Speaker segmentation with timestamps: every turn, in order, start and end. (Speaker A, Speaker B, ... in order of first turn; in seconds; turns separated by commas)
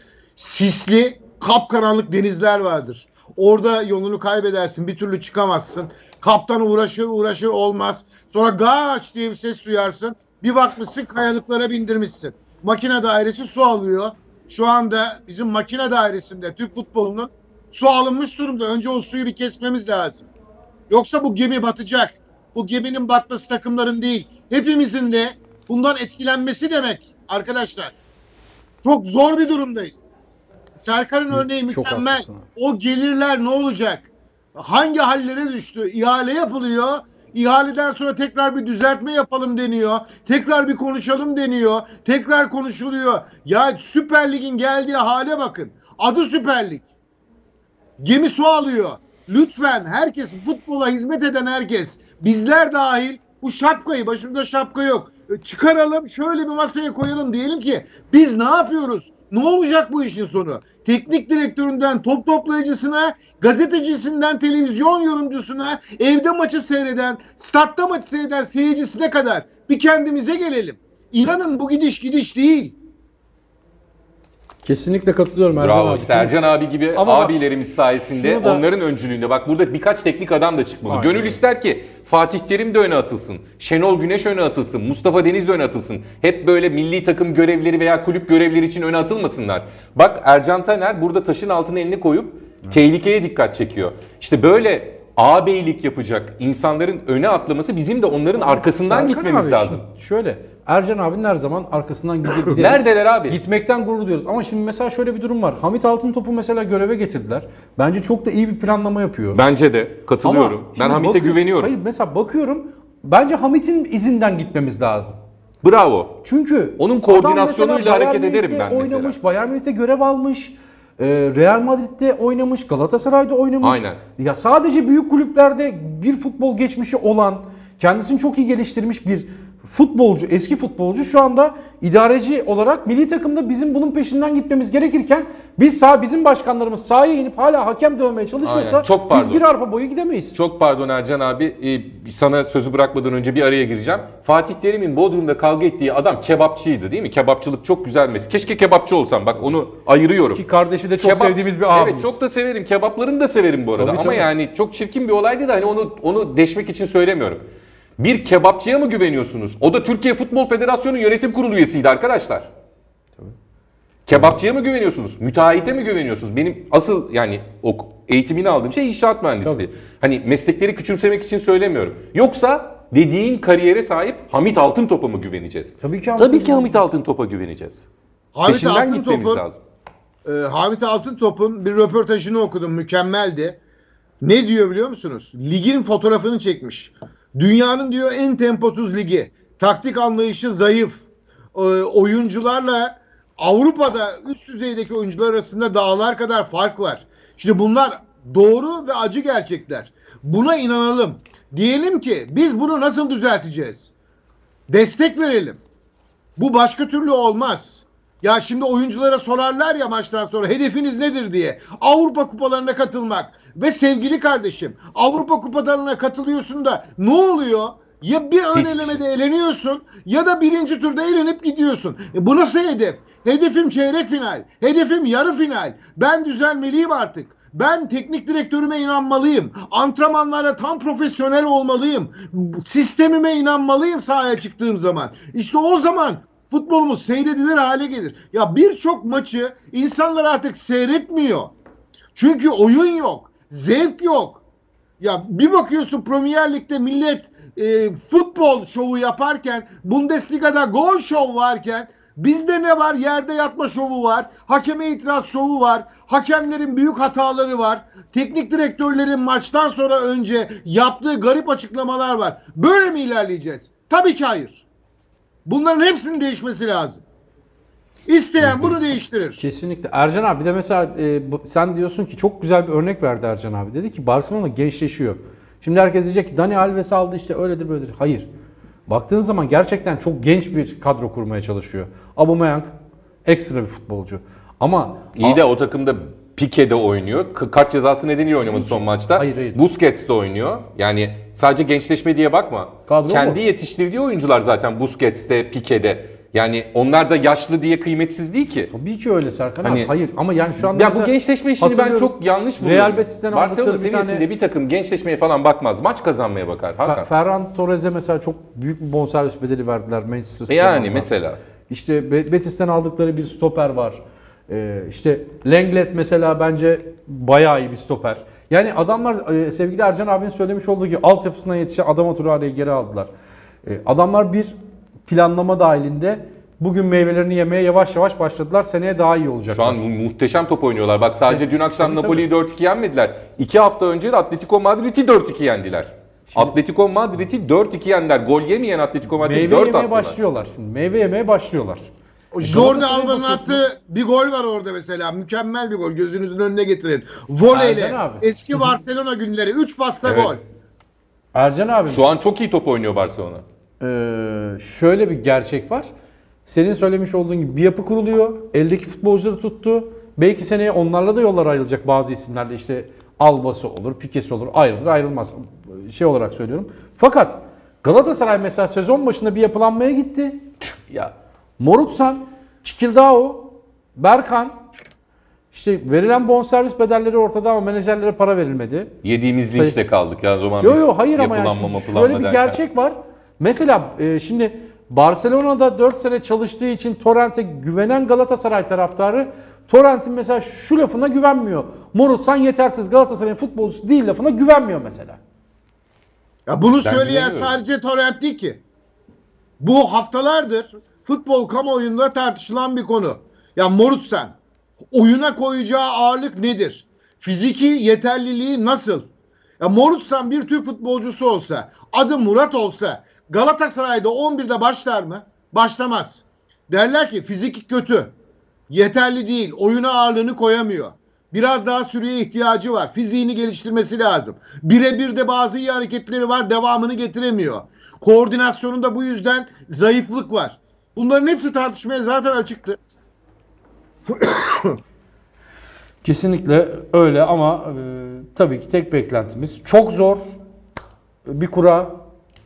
Speaker A: 0.3-20.3, Speaker A: 20.9-27.9, Speaker A: 28.8-30.1, Speaker A: 30.8-46.8, Speaker B: 31.3-32.5, Speaker A: 48.0-72.7, Speaker B: 74.6-76.3, Speaker C: 75.5-99.8, Speaker B: 76.9-78.6, Speaker B: 80.8-81.4, Speaker B: 98.4-109.4, Speaker C: 102.4-103.4, Speaker C: 109.3-111.7, Speaker B: 110.2-115.2, Speaker C: 115.6-116.2, Speaker B: 116.2-140.3, Speaker C: 116.8-119.2, Speaker C: 123.6-124.0, Speaker C: 138.4-139.4, Speaker C: 140.3-150.4, Speaker B: 150.3-152.2, Speaker C: 151.0-157.4, Speaker B: 153.7-154.3, Speaker C: 158.0-162.5, Speaker C: 164.1-177.8, Speaker B: 175.8-176.8, Speaker A: 178.3-179.4, Speaker C: 178.4-179.6, Speaker A: 180.2-183.6, Speaker A: 184.2-191.0, Speaker A: 191.5-203.9, Speaker A: 204.7-205.6, Speaker A: 206.4-241.5, Speaker C: 218.5-219.0, Speaker A: 242.1-244.4, Speaker A: 245.0-264.6, Speaker A: 265.4-267.0, Speaker A: 268.1-269.4, Speaker B: 268.4-268.7, Speaker B: 269.4-278.3, Speaker B: 278.9-282.7, Speaker B: 283.3-285.4, Speaker C: 285.2-298.7, Speaker B: 288.5-289.6, Speaker B: 292.9-293.4, Speaker B: 298.7-304.2, Speaker C: 299.6-299.9, Speaker C: 300.6-307.1, Speaker B: 306.8-311.1, Speaker C: 310.5-311.4, Speaker B: 311.7-323.1, Speaker B: 323.6-324.5, Speaker B: 325.1-329.8, Speaker C: 329.5-340.1, Speaker B: 331.2-332.2, Speaker B: 339.2-341.9, Speaker A: 342.3-350.4, Speaker B: 342.4-343.6, Speaker B: 347.5-348.7, Speaker C: 350.0-350.4, Speaker B: 351.3-352.1, Speaker C: 351.9-353.4, Speaker B: 353.8-355.9, Speaker B: 356.4-370.5, Speaker B: 371.6-374.6, Speaker B: 375.5-378.9, Speaker C: 379.0-382.6, Speaker B: 379.5-379.8, Speaker B: 380.6-395.2, Speaker A: 396.5-398.6, Speaker C: 396.8-397.5, Speaker A: 399.6-404.4, Speaker A: 404.9-409.1, Speaker A: 409.6-418.1, Speaker A: 418.7-432.8, Speaker A: 434.1-434.8, Speaker B: 436.0-440.4, Speaker B: 441.3-441.9